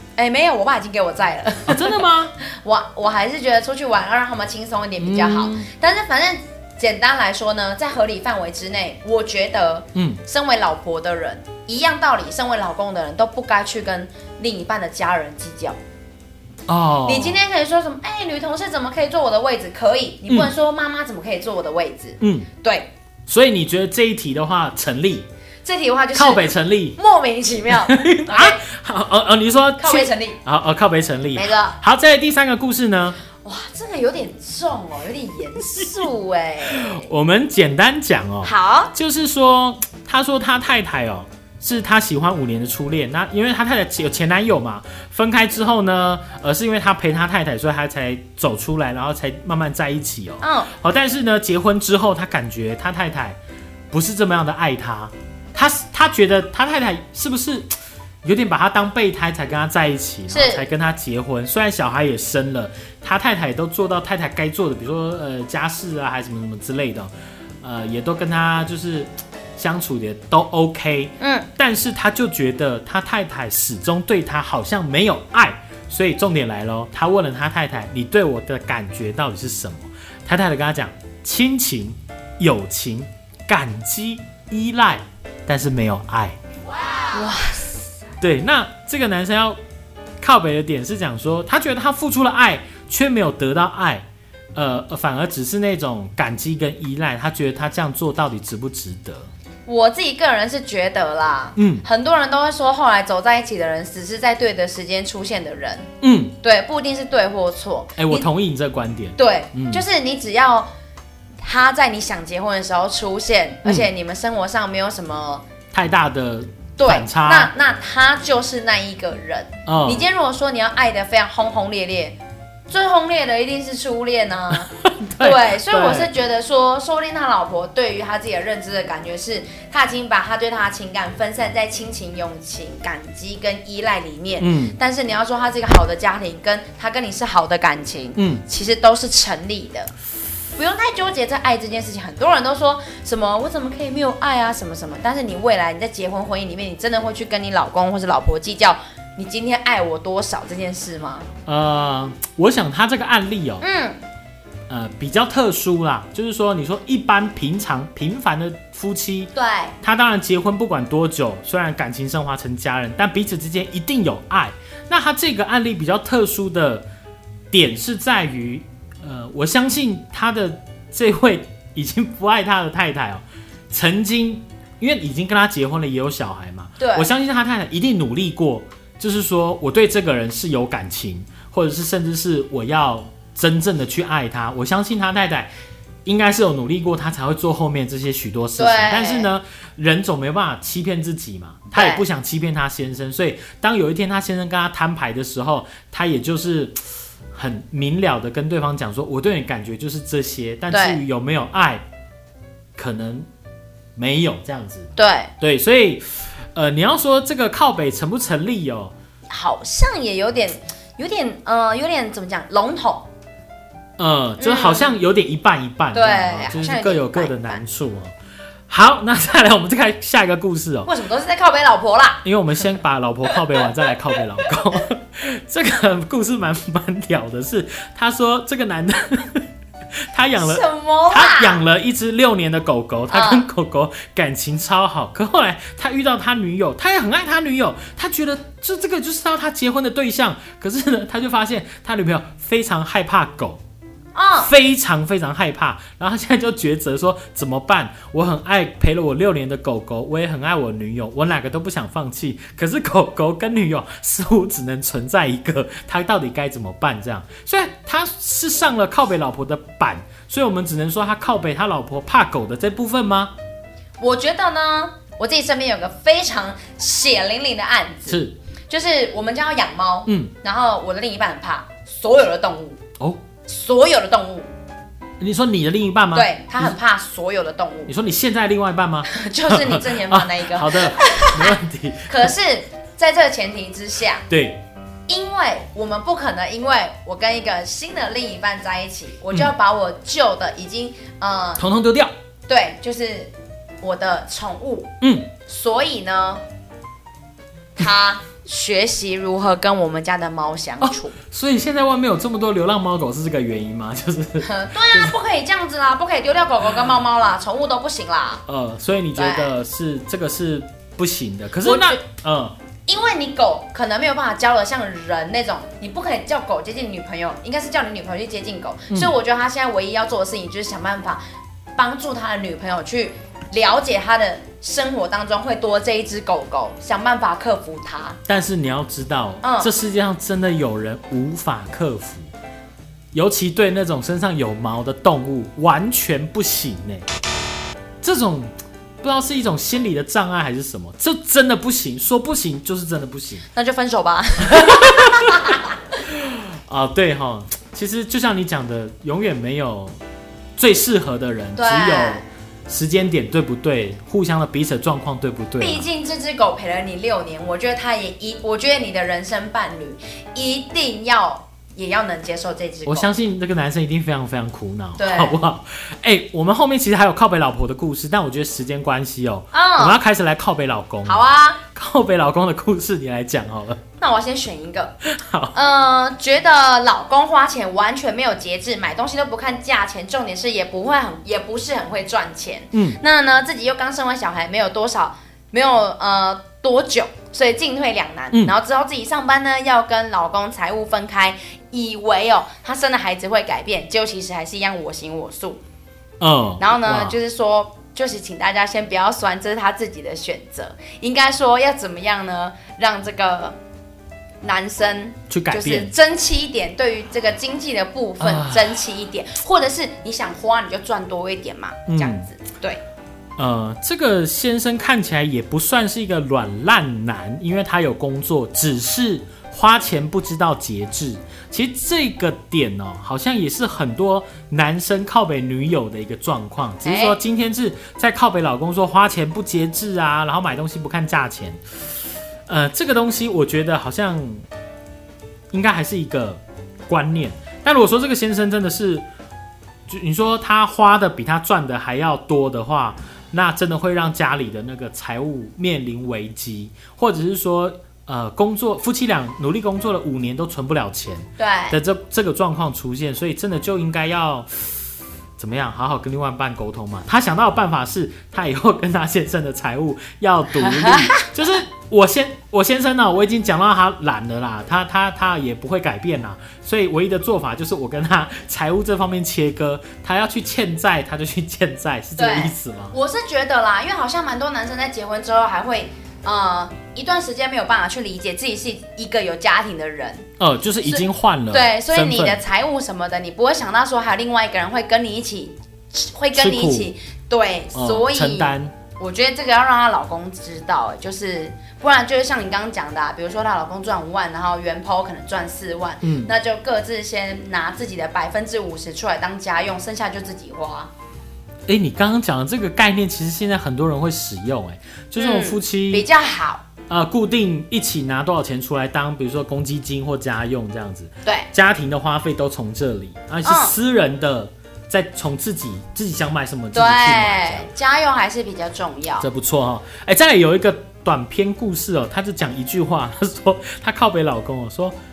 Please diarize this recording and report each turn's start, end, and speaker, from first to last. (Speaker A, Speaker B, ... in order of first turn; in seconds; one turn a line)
Speaker A: 0.2-15.8
Speaker B: 1.7-2.3
Speaker B: 5.0-5.7
Speaker B: 9.9-10.2
Speaker B: 16.7-17.4
Speaker A: 17.1-22.9
Speaker B: 22.2-22.5
Speaker B: 23.3-25.3
Speaker A: 25.6-28.6
Speaker B: 26.1-27.0
Speaker B: 27.7-33.2
Speaker A: 29.8-30.4
Speaker A: 31.3-31.8
Speaker A: 33.4-37.1
Speaker B: 36.7-53.4
Speaker A: 38.4-38.9
Speaker A: 50.4-50.7
Speaker B: 53.9-57.7
Speaker B: 58.2-67.1
Speaker A: 60.3-60.7
Speaker B: 67.6-86.4
Speaker A: 71.2-71.5
Speaker A: 87.1-87.8
Speaker B: 88.2-89.6
Speaker B: 90.2-99.3
Speaker A: 99.7-105.9
Speaker B: 101.6-101.8
Speaker B: 106.0-106.3
Speaker A: 106.4-108.3
Speaker B: 108.0-109.8
Speaker A: 109.2-110.7
Speaker A: 111.4-115.5
Speaker B: 115.7-117.5
Speaker A: 116.8-122.2
Speaker B: 119.7-120.0
Speaker A: 122.7-139.9
Speaker B: 124.8-126.1
Speaker B: 134.4-134.8
Speaker B: 138.2-138.4
Speaker A: 140.6-151.3
Speaker B: 151.5-153.7
Speaker A: 153.6-154.0
Speaker B: 154.7-166.8
Speaker A: 159.3-159.8
Speaker B: 167.5-185.5
Speaker A: 176.8-177.1
Speaker B: 186.1-196.8
Speaker A: 188.6-189.3
Speaker A: 191.7-192.0
Speaker B: 197.3-201.8
Speaker A: 200.7-201.0
Speaker B: 202.8-203.3
Speaker B: 204.0-208.9
Speaker A: 205.0-205.3
Speaker A: 209.3-213.1
Speaker B: 214.0-218.1
Speaker A: 214.4-214.9
Speaker A: 215.9-217.6
Speaker B: 218.7-220.9
Speaker A: 220.9-222.2
Speaker B: 222.2-229.5
Speaker B: 230.1-243.6
Speaker A: 230.4-231.6
Speaker A: 233.1-233.5
Speaker A: 244.2-244.5
Speaker B: 244.4-263.3
Speaker A: 264.0-272.8
Speaker B: 268.1-268.4
Speaker B: 270.1-270.3
Speaker A: 273.5-274.5
Speaker B: 275.2-276.8
Speaker A: 276.1-277.9
Speaker B: 277.9-282.3
Speaker A: 279.1-281.6
Speaker A: 282.1-284.2
Speaker B: 284.3-284.6
Speaker A: 285.1-291.6
Speaker B: 291.6-292.1
Speaker A: 292.5-294.9
Speaker B: 295.0-295.3
Speaker A: 295.4-296.4
Speaker A: 297.8-301.1
Speaker B: 300.8-305.1
Speaker A: 304.4-308.4
Speaker B: 308.5-312.5
Speaker A: 309.2-309.5
Speaker A: 311.6-312.0
Speaker A: 312.9-321.2
Speaker A: 321.8-328.2
Speaker B: 328.3-332.3
Speaker A: 329.4-329.7
Speaker B: 333.1-337.1
Speaker B: 338.0-343.5
Speaker A: 343.6-345.7
Speaker B: 344.4-345.4
Speaker B: 346.0-350.0
Speaker B: 350.6-355.9
Speaker A: 351.6-352.2
Speaker A: 355.6-363.1
Speaker B: 362.9-373.8
Speaker A: 365.0-365.4
Speaker A: 369.5-370.0
Speaker A: 371.1-371.6
Speaker A: 374.0-375.0
Speaker B: 375.1-375.6
Speaker A: 375.5-395.6
Speaker B: 382.7-383.0
Speaker B: 396.2-397.2
Speaker A: 396.6-403.6
Speaker A: 404.4-412.8
Speaker B: 405.3-405.9
Speaker B: 408.2-408.8
Speaker B: 411.9-412.3
Speaker B: 413.4-431.6
Speaker A: 426.8-427.2
Speaker B: 432.5-434.5
Speaker B: 435.5-439.1
Speaker B: 439.9-454.8
Speaker A: 451.4-451.8
Speaker B: 455.4-472.9
Speaker A: 460.6-461.2
Speaker A: 472.2-480.3
Speaker B: 480.4-482.4
Speaker A: 480.8-500.9
Speaker B: 486.4-486.9
Speaker B: 487.7-488.7
Speaker B: 496.0-496.3
Speaker B: 501.7-506.1
Speaker A: 505.2-506.6
Speaker B: 506.9-517.7
Speaker A: 513.5-513.7
Speaker A: 516.7-519.3
Speaker B: 519.2-525.0